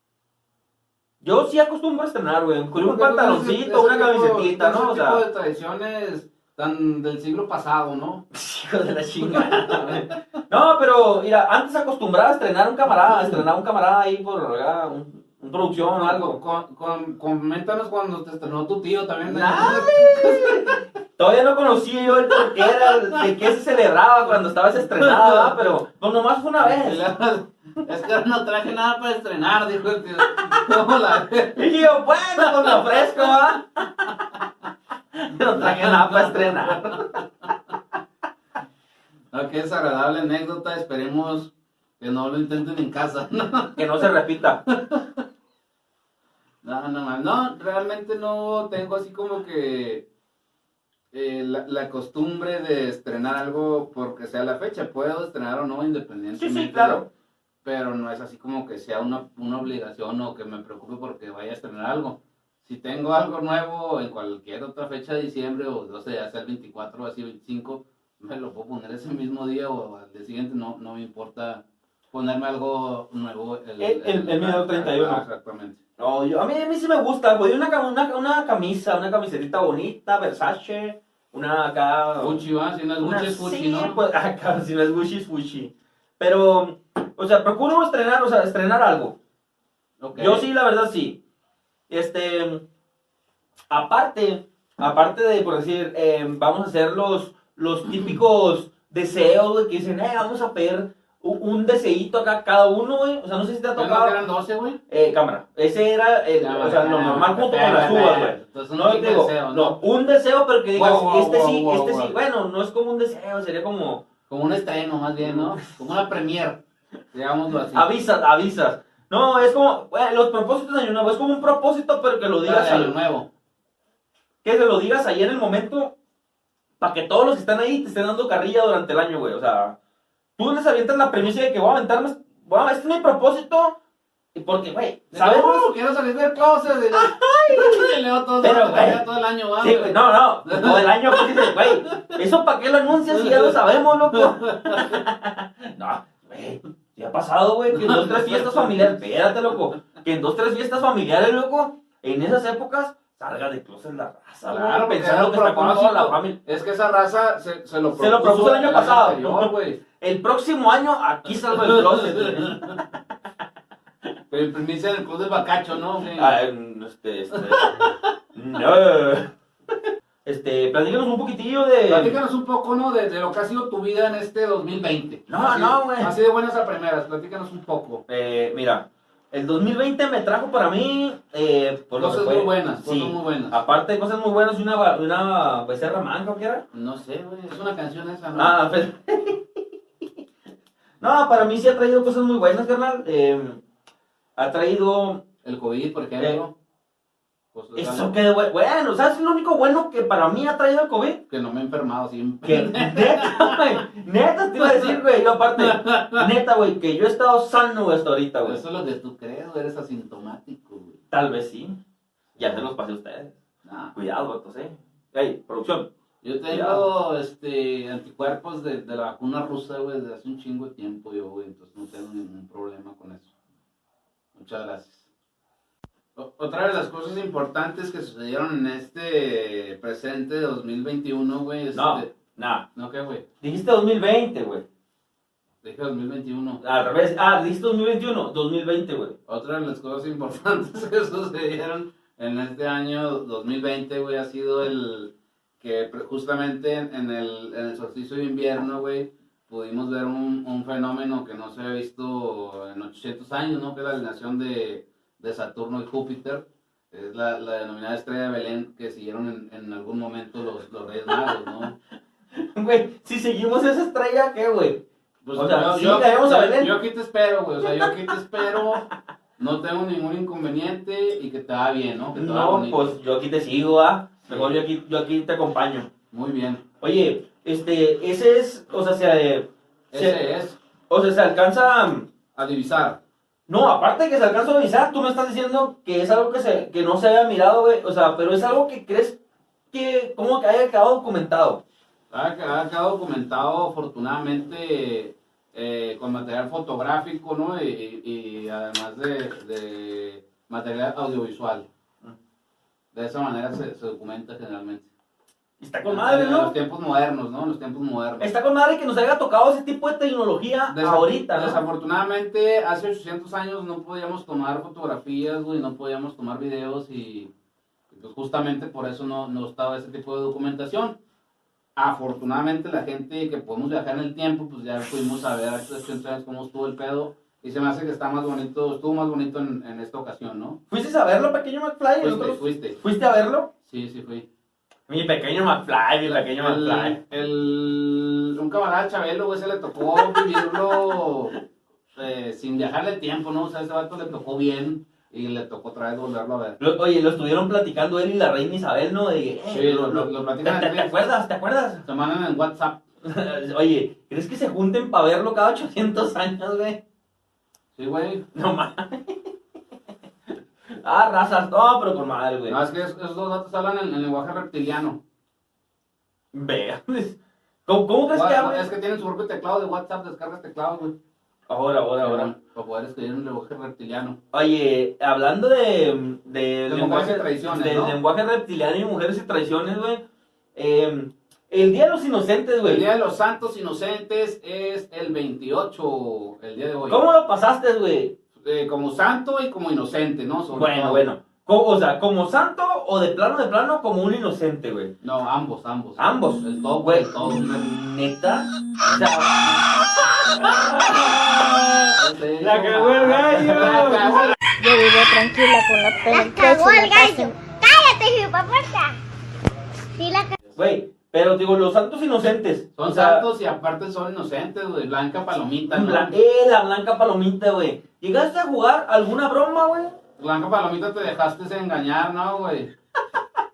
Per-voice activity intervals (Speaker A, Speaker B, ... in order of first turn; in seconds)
Speaker A: 1.2-5.2, 8.3-16.4, 19.2-27.0, 31.5-34.2, 35.1-37.2, 43.8-44.6, 56.4-57.1, 73.8-75.2, 76.0-82.4, 83.0-89.2, 90.1-91.2, 91.9-92.6, 93.7-104.2, 104.9-114.0, 115.2-115.6, 117.7-122.9, 124.4-125.9, 126.8-129.8, 130.4-133.8, 134.3-135.7, 136.9-139.0, 139.6-156.3, 157.9-162.9, 166.1-169.3, 170.2-172.2, 175.3-176.1, 178.1-186.6, 188.3-189.6, 191.0-193.6, 194.3-195.2, 197.8-201.2, 202.4-208.6, 211.1-211.8, 212.4-213.3, 213.9-215.9, 216.5-216.8, 231.7-232.7, 233.4-234.6, 236.6-239.2, 262.3-264.8, 265.4-266.8, 267.6-268.9, 272.1-275.9, 276.8-280.2, 280.9-282.1, 283.5-289.2, 289.7-291.6, 305.6-306.5, 308.2-311.6, 330.7-333.5, 334.9-337.0, 340.0-340.4, 346.6-351.8, 353.0-356.8, 358.3-359.3, 360.7-362.6, 366.3-368.6, 371.5-372.3, 374.3-380.0, 380.5-382.8, 386.9-388.1, 390.5-394.9, 396.0-404.4, 410.5-413.2, 415.7-419.9
Speaker B: 2.7-8.2, 9.2-10.2, 12.8-13.4, 15.9-20.8, 22.4-23.3, 24.9-25.7, 26.6-31.7, 32.4-33.3, 35.5-37.5, 39.3-44.1, 44.7-45.2, 46.6-50.0, 51.1-57.0, 57.6-75.8, 82.2-84.0, 90.0-90.5, 103.8-104.8, 106.4-109.8, 110.7-112.1, 114.3-116.6, 117.1-117.9, 122.4-123.3, 135.1-142.2, 143.1-143.6, 144.1-145.0, 147.7-149.0, 154.5-159.8, 161.3-162.8, 164.3-166.3, 167.3-168.0, 171.9-178.0, 182.0-183.6, 186.7-188.6, 195.4-196.5, 197.5-198.1, 201.3-203.8, 204.6-205.0, 205.5-206.3, 208.4-211.0, 212.3-212.7, 213.6-213.9, 216.2-223.3, 224.3-225.0, 226.2-232.1, 232.7-233.2, 235.6-236.6, 239.3-261.8, 265.2-268.9, 269.4-272.9, 274.3-274.5, 276.1-276.6, 279.9-280.6, 282.3-283.0, 292.1-301.7, 302.9-304.9, 305.8-308.3, 310.7-317.3, 317.9-320.9, 321.8-330.6, 332.0-332.8, 333.6-334.2, 336.0-341.4, 341.9-346.6, 349.5-350.9, 351.8-352.8, 357.8-358.2, 362.5-365.0, 368.1-370.9, 372.0-374.2, 376.7-378.0, 382.6-387.1, 388.4-391.1, 395.0-397.7, 401.9-404.4, 412.8-416.1, 420.2-422.7
Speaker C: 404.6-407.4
Speaker D: 406.1-409.0, 409.9-410.4